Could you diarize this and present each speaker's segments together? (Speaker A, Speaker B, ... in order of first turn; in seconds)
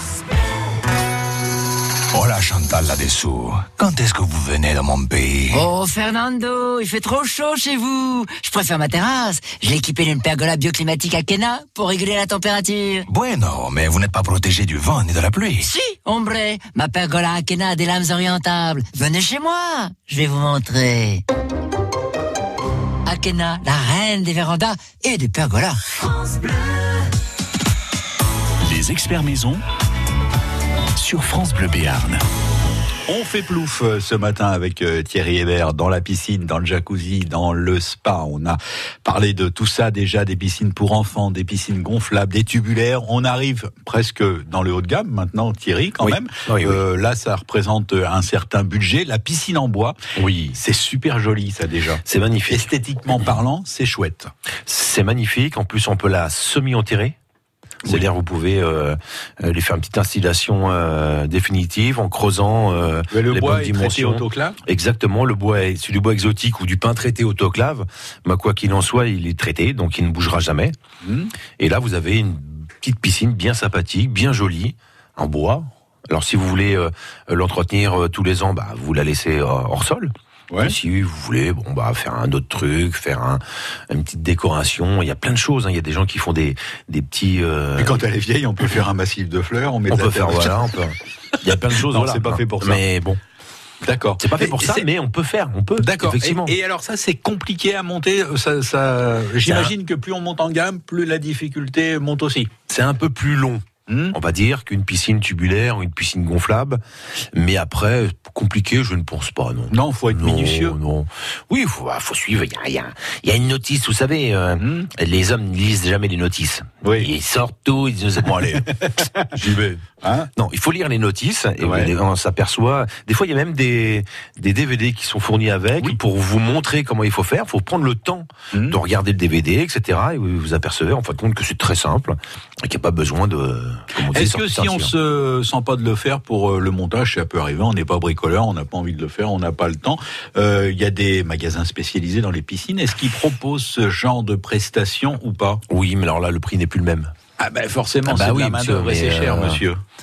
Speaker A: 2.1-5.6, 13.1-15.7
Speaker B: 5.5-13.1, 15.6-21.2, 23.1-25.8
Speaker C: 28.6-29.6, 30.9-32.2
Speaker D: 33.1-50.0, 50.5-54.3, 63.1-64.6, 71.0-71.3, 80.5-80.8, 87.8-90.5, 91.7-92.8, 93.8-94.8, 95.8-102.5, 103.9-104.2, 109.7-110.8, 114.6-114.9, 116.8-117.1, 118.8-120.3, 121.6-121.9, 128.5-128.8, 134.1-145.6, 147.4-149.8
Speaker E: 46.0-46.8, 50.1-50.6, 52.0-53.4, 54.7-57.1, 57.8-70.8, 71.6-88.0, 89.9-93.2, 94.2-96.5, 99.4-99.7, 102.7-106.8, 107.3-118.7, 119.4-119.8, 120.3-134.9, 145.7-147.1, 148.0-149.6